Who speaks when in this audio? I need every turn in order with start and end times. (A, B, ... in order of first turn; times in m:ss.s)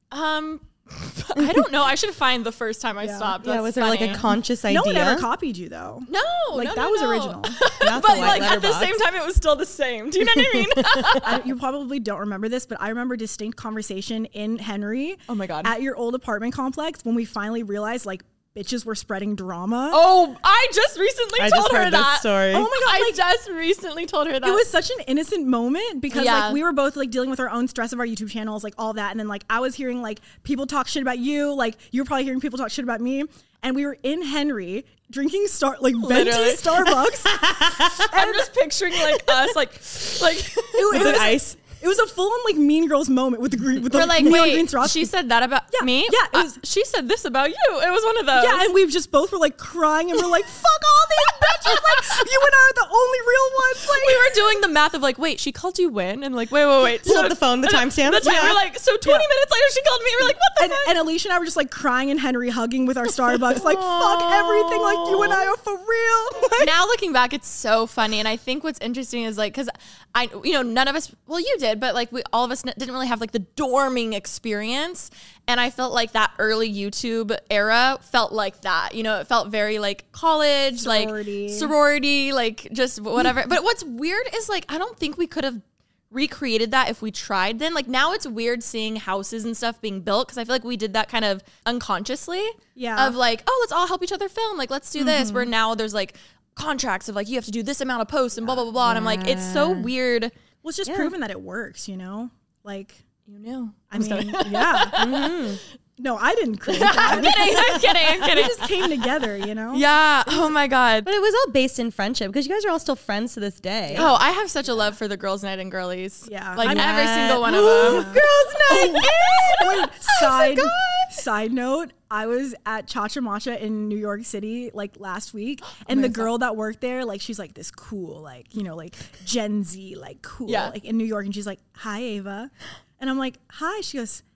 0:00.1-0:04.2 A
0:03.0-0:03.4 B
0:03.4-0:05.3 C
0:04.0-0:07.6 B
0:06.1-0:11.4 A
0:07.8-0:09.0 C
0:10.2-0:11.2 C
0:11.2-0:20.1 B
0:15.3-0:15.7 A
0:19.9-0:24.6 A
0:21.4-0:22.7 C
0:22.5-0:23.2 B
0:24.4-0:39.4 B
0:26.1-0:26.6 A
0:36.0-0:36.9 A
0:37.4-0:38.0 C
0:37.8-0:41.2 A
0:40.7-0:45.1 B
0:40.9-0:41.6 C
0:43.9-0:48.7 A
0:45.7-0:46.6 B
0:48.3-0:54.4 B
0:51.7-0:52.2 A
0:53.9-1:01.0 A
0:57.0-0:58.6 C
0:58.3-0:59.3 B
1:00.6-1:06.7 B
1:03.5-1:05.5 C
1:06.6-1:40.3 A
1:20.8-1:21.7 B
1:32.8-1:33.2 B
1:35.0-1:35.5 B
1:38.8-1:39.9 C
1:40.6-1:43.0 B
1:40.8-1:41.1 C
1:43.3-1:45.4 A
1:43.9-1:45.0 B
1:45.0-1:45.6 C
1:46.0-1:49.9 B
1:46.7-1:48.7 A
1:47.1-1:47.9 C
1:49.7-1:51.1 A
1:51.0-1:54.1 C
1:53.9-1:54.2 B
1:54.0-1:58.1 A
1:56.3-2:14.2 B
1:56.6-2:01.1 C
1:58.7-1:59.9 A
2:05.9-2:06.3 A
2:10.5-2:10.7 A